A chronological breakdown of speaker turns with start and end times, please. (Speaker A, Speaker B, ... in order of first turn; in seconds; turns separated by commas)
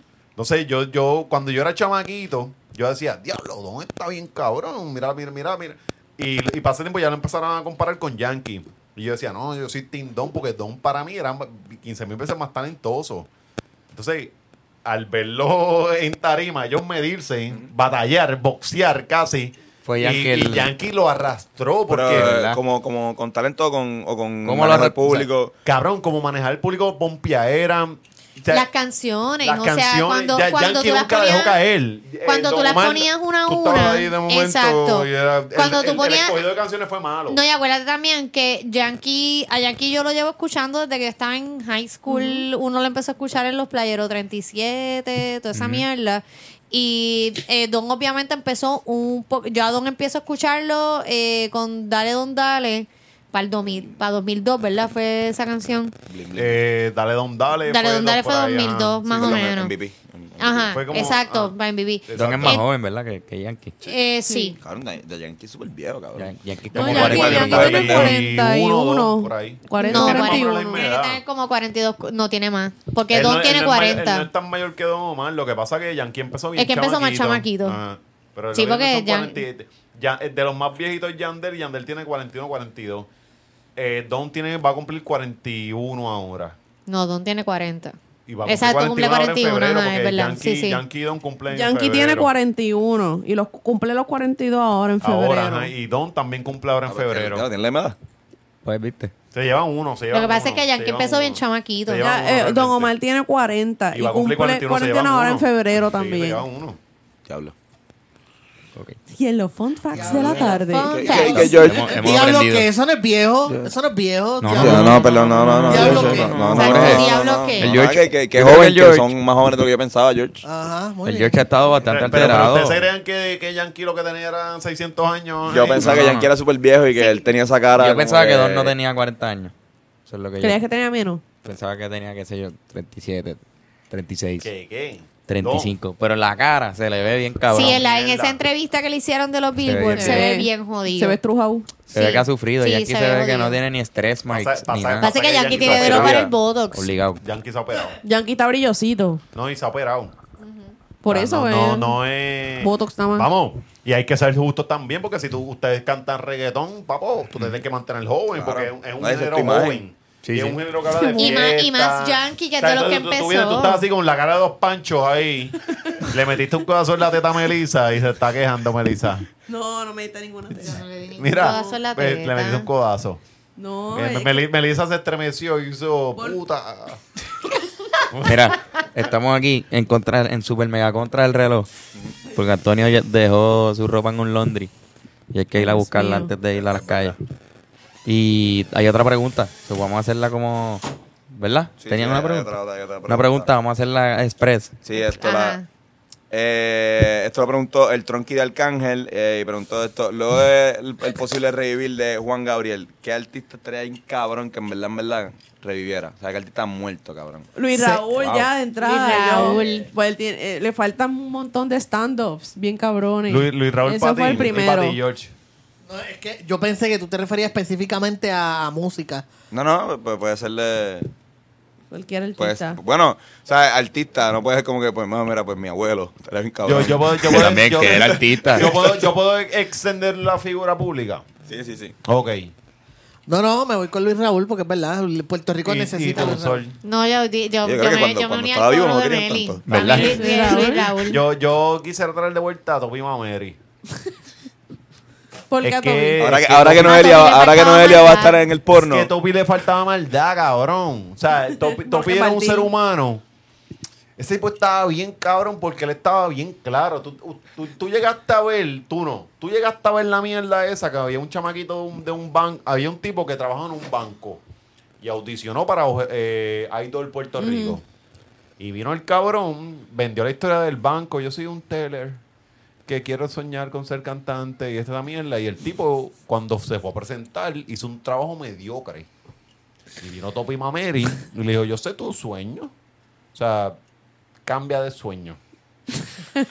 Speaker A: 0.4-13.3, Speaker A: 13.9-14.3, Speaker A: 14.8-22.3, Speaker B: 19.8-20.7, Speaker C: 21.9-25.5, Speaker B: 22.1-22.6, Speaker B: 24.4-25.3, Speaker A: 25.7-28.7, Speaker D: 28.5-31.6, Speaker A: 29.4-37.4, Speaker D: 32.2-36.4, Speaker D: 37.3-55.9, Speaker E: 42.1-42.5, Speaker B: 45.5-45.9, Speaker C: 56.1-56.6, Speaker A: 56.4-59.4, Speaker D: 57.6-59.7, Speaker C: 59.1-60.8, Speaker D: 60.4-62.6, Speaker A: 60.7-61.5, Speaker A: 62.1-62.6, Speaker B: 62.1-63.8, Speaker D: 63.8-64.6, Speaker E: 64.3-64.5, Speaker C: 64.6-68.2, Speaker B: 66.2-67.7, Speaker E: 66.7-70.9, Speaker A: 66.7-71.2, Speaker D: 69.8-74.3, Speaker A: 73.1-83.1, Speaker D: 76.6-77.8, Speaker D: 78.5-79.4, Speaker A: 83.8-86.6, Speaker D: 86.9-90.8, Speaker A: 88.3-92.3, Speaker E: 91.5-95.7, Speaker A: 95.0-97.5, Speaker C: 96.9-98.0, Speaker B: 98.7-99.1, Speaker A: 99.3-102.9, Speaker D: 100.1-102.1, Speaker E: 102.0-106.4, Speaker A: 103.9-106.8, Speaker C: 107.3-107.5, Speaker E: 109.1-111.0, Speaker F: 109.9-116.5, Speaker D: 110.2-111.7, Speaker C: 110.9-112.0, Speaker B: 111.6-112.7, Speaker C: 113.5-113.7, Speaker B: 114.4-119.1, Speaker C: 114.5-120.4, Speaker D: 116.4-117.8, Speaker F: 120.4-121.5, Speaker B: 121.0-122.8, Speaker A: 121.8-126.1, Speaker C: 122.1-122.4, Speaker C: 125.5-128.8, Speaker B: 125.8-126.3, Speaker D: 127.0-127.2, Speaker B: 127.8-129.5, Speaker B: 130.1-130.6, Speaker E: 130.4-131.2, Speaker B: 131.4-134.5, Speaker A: 134.4-135.7, Speaker B: 135.3-137.8, Speaker D: 137.5-141.2, Speaker A: 137.5-138.4, Speaker B: 139.6-140.3, Speaker E: 140.0-141.8, Speaker D: 141.9-143.6, Speaker B: 141.9-147.2, Speaker A: 144.3-146.3, Speaker D: 145.0-146.9, Speaker C: 145.5-146.2, Speaker A: 147.2-148.0, Speaker E: 148.0-149.2, Speaker A: 149.3-150.1, Speaker D: 150.4-150.7, Speaker E: 151.0-152.0, Speaker A: 151.1-169.3, Speaker E: 152.6-153.3, Speaker C: 158.3-159.8, Speaker B: 160.2-160.6, Speaker E: 161.0-161.5, Speaker D: 161.2-163.8, Speaker E: 169.5-170.9, Speaker D: 170.7-172.7, Speaker A: 171.2-173.2, Speaker E: 171.4-171.8, Speaker E: 173.6-174.4, Speaker A: 173.9-177.0, Speaker A: 178.1-178.4, Speaker B: 178.2-181.7, Speaker B: 182.3-184.7, Speaker B: 185.3-187.2, Speaker E: 185.6-186.3, Speaker C: 186.5-187.2, Speaker B: 188.1-192.5, Speaker C: 191.8-193.5, Speaker B: 193.1-194.8, Speaker C: 194.8-195.6, Speaker D: 195.2-195.7, Speaker C: 196.3-207.5, Speaker E: 207.6-215.0, Speaker F: 207.7-208.1, Speaker C: 208.2-208.5, Speaker D: 208.8-209.9, Speaker C: 209.3-209.6, Speaker A: 213.3-215.3, Speaker F: 215.9-219.2, Speaker C: 219.5-221.1, Speaker E: 221.9-222.8, Speaker C: 222.4-229.0, Speaker A: 226.6-231.2, Speaker B: 227.3-228.8, Speaker C: 231.5-231.9, Speaker A: 232.0-232.5, Speaker F: 233.3-236.6, Speaker A: 235.6-236.8, Speaker D: 236.8-241.2, Speaker C: 237.6-239.7, Speaker B: 239.7-240.2, Speaker A: 239.7-240.4, Speaker E: 239.8-241.1, Speaker A: 241.0-243.6, Speaker E: 245.5-246.4, Speaker A: 245.6-247.4, Speaker C: 246.2-249.1, Speaker D: 246.8-248.4, Speaker A: 248.7-253.2, Speaker E: 251.8-252.7, Speaker A: 254.2-264.4, Speaker A: 265.0-267.8, Speaker E: 267.4-267.8, Speaker A: 268.6-272.2, Speaker A: 272.9-279.1, Speaker A: 280.0-282.7, Speaker A: 283.3-283.8, Speaker A: 284.4-285.4